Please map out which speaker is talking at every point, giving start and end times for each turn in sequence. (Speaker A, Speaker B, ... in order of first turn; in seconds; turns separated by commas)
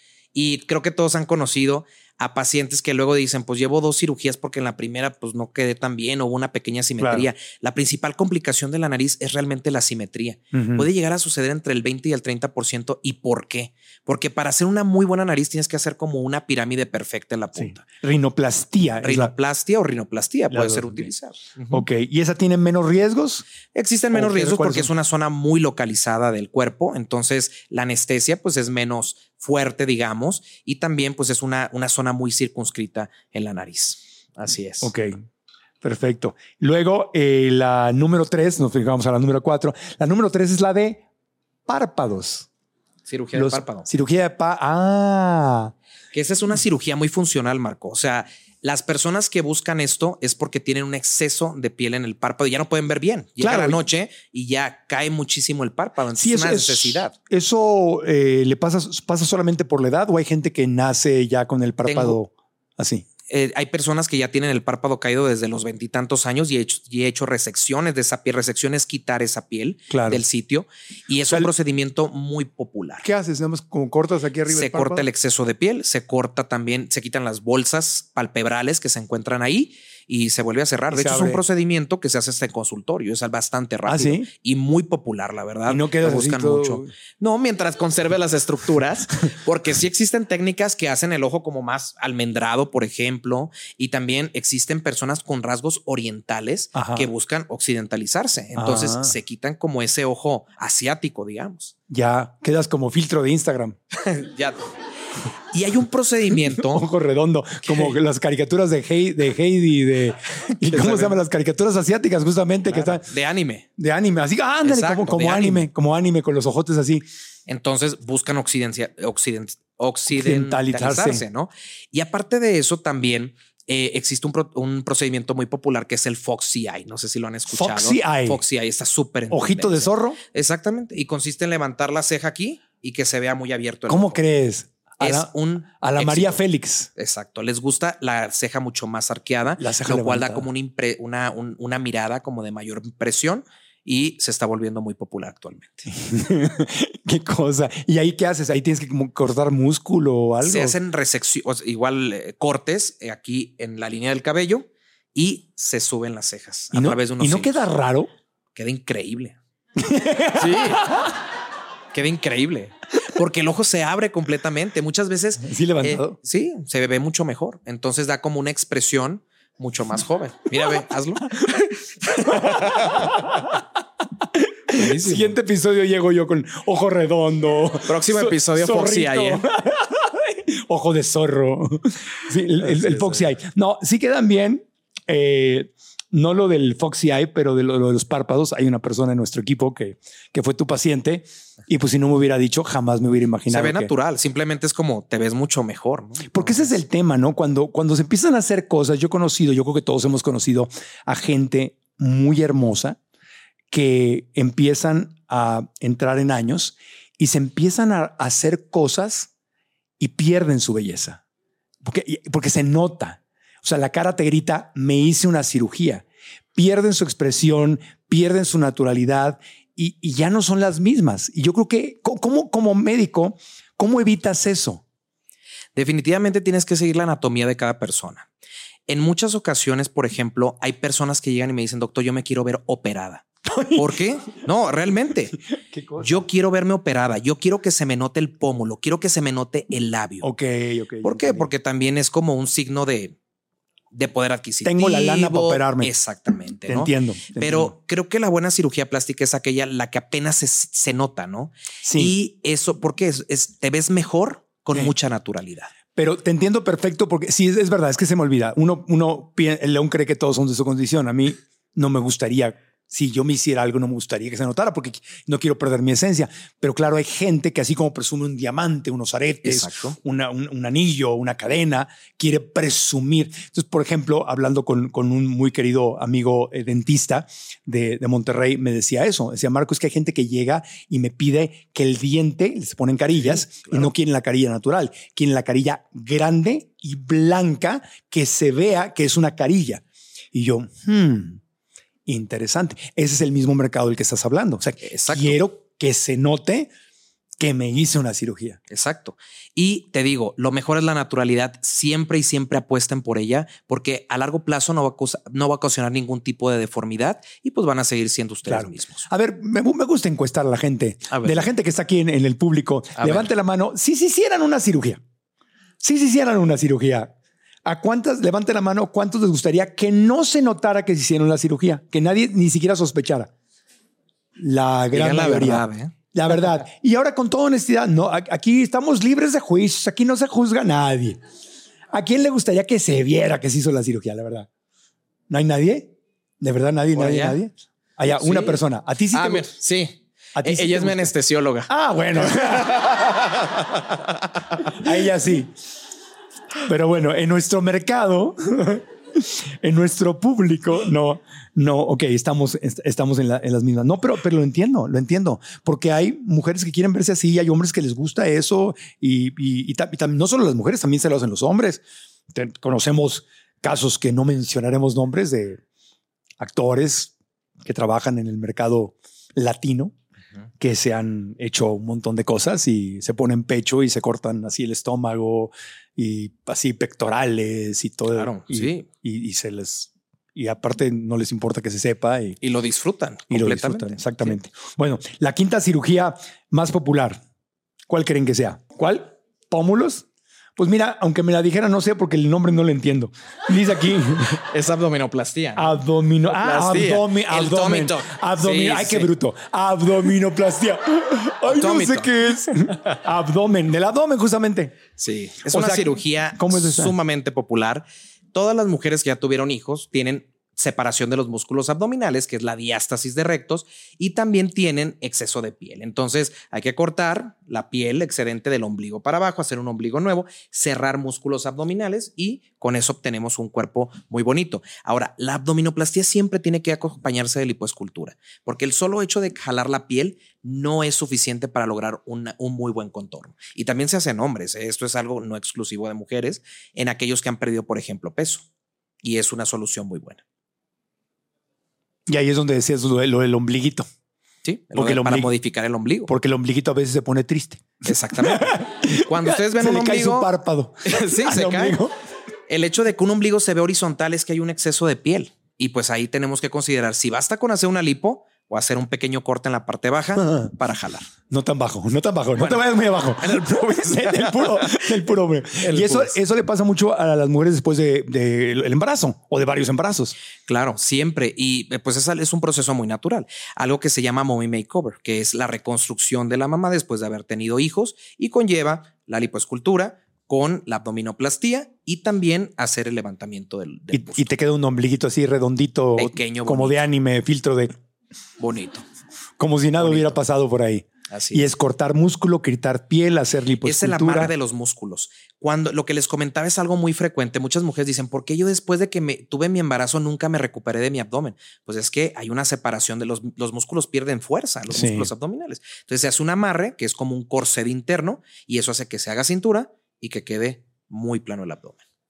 Speaker A: 0.3-17.9, Speaker B: 7.0-7.3, Speaker B: 10.5-10.9, Speaker B: 17.6-19.3, Speaker A: 19.0-21.8, Speaker B: 20.5-21.1, Speaker B: 21.7-23.4, Speaker A: 23.7-34.9, Speaker B: 24.1-24.9, Speaker B: 34.8-35.2, Speaker B: 35.8-41.0, Speaker B: 41.7-42.5, Speaker A: 43.1-43.9, Speaker B: 43.3-45.7, Speaker A: 46.1-57.1, Speaker B: 53.4-53.8, Speaker B: 56.2-63.0, Speaker A: 61.9-62.2, Speaker A: 63.3-73.0, Speaker B: 69.9-70.2, Speaker B: 73.0-75.1, Speaker A: 74.5-101.8, Speaker B: 80.9-81.4, Speaker B: 83.9-84.3, Speaker B: 85.7-86.9, Speaker B: 96.8-97.1, Speaker B: 98.5-99.2, Speaker B: 101.9-103.8, Speaker A: 103.9-104.6, Speaker A: 105.5-106.9, Speaker B: 106.6-113.0, Speaker A: 107.7-107.9, Speaker A: 110.6-111.2, Speaker A: 112.7-113.7, Speaker B: 113.8-117.1, Speaker A: 114.6-115.7, Speaker A: 117.5-134.2, Speaker B: 120.1-121.2, Speaker B: 127.5-128.4, Speaker B: 129.3-130.2, Speaker B: 133.9-136.9, Speaker A: 135.0-136.4, Speaker A: 137.0-145.9, Speaker B: 139.6-140.5, Speaker B: 146.0-150.8, Speaker A: 150.4-157.7, Speaker B: 156.7-158.1, Speaker A: 158.6-159.4, Speaker B: 159.8-161.1, Speaker A: 160.4-161.1, Speaker A: 161.9-173.2, Speaker B: 165.4-166.2, Speaker B: 172.3-173.5, Speaker B: 174.4-193.9, Speaker A: 174.7-175.3, Speaker A: 177.9-179.4, Speaker A: 182.6-183.3, Speaker A: 193.5-196.7, Speaker B: 196.3-203.0, Speaker B: 203.7-209.3, Speaker B: 210.0-211.2, Speaker B: 211.8-224.8, Speaker A: 225.8-228.3, Speaker A: 228.9-235.4, Speaker B: 233.5-234.0, Speaker B: 235.7-236.2, Speaker A: 236.0-240.3, Speaker B: 240.2-241.5, Speaker A: 241.0-243.2, Speaker A: 243.9-255.7, Speaker B: 244.7-245.9, Speaker B: 246.7-247.7, Speaker B: 251.8-252.2, Speaker B: 256.0-291.4, Speaker A: 269.4-270.0, Speaker A: 283.3-283.9, Speaker B: 292.1-296.7, Speaker A: 294.8-295.4, Speaker B: 297.4-298.6, Speaker A: 298.7-309.1, Speaker B: 308.5-315.0, Speaker A: 311.1-311.4, Speaker A: 313.0-313.3, Speaker B: 315.8-317.1, Speaker B: 317.7-323.3, Speaker B: 324.4-331.2, Speaker A: 324.9-325.9, Speaker B: 331.9-334.5, Speaker B: 335.3-339.5, Speaker A: 336.9-337.4, Speaker A: 338.2-338.6, Speaker A: 339.1-344.9, Speaker B: 340.4-341.1, Speaker B: 341.7-343.0, Speaker B: 344.7-345.5, Speaker B: 346.6-365.6, Speaker B: 366.4-367.1, Speaker B: 367.6-369.9, Speaker B: 370.6-382.4, Speaker A: 378.1-378.9, Speaker A: 382.4-384.4, Speaker B: 383.3-387.2, Speaker B: 387.9-390.0, Speaker B: 390.6-394.4, Speaker A: 394.5-395.7, Speaker B: 395.6-404.8, Speaker A: 396.3-399.1, Speaker A: 401.5-402.1, Speaker A: 405.0-438.5, Speaker B: 405.5-406.9, Speaker A: 439.0-440.2, Speaker B: 442.1-443.9, Speaker A: 444.4-446.1, Speaker B: 444.8-445.3, Speaker B: 446.1-451.9, Speaker A: 447.9-450.3, Speaker A: 450.9-451.8, Speaker A: 452.5-461.1, Speaker B: 460.2-460.5, Speaker B: 461.3-470.1, Speaker A: 462.4-465.0, Speaker A: 465.6-466.1, Speaker A: 470.5-484.3, Speaker B: 483.9-487.7, Speaker A: 486.0-486.8, Speaker A: 488.4-488.8, Speaker B: 489.4-494.3, Speaker A: 489.8-490.2, Speaker A: 491.1-491.5, Speaker A: 493.6-511.8, Speaker B: 504.7-505.1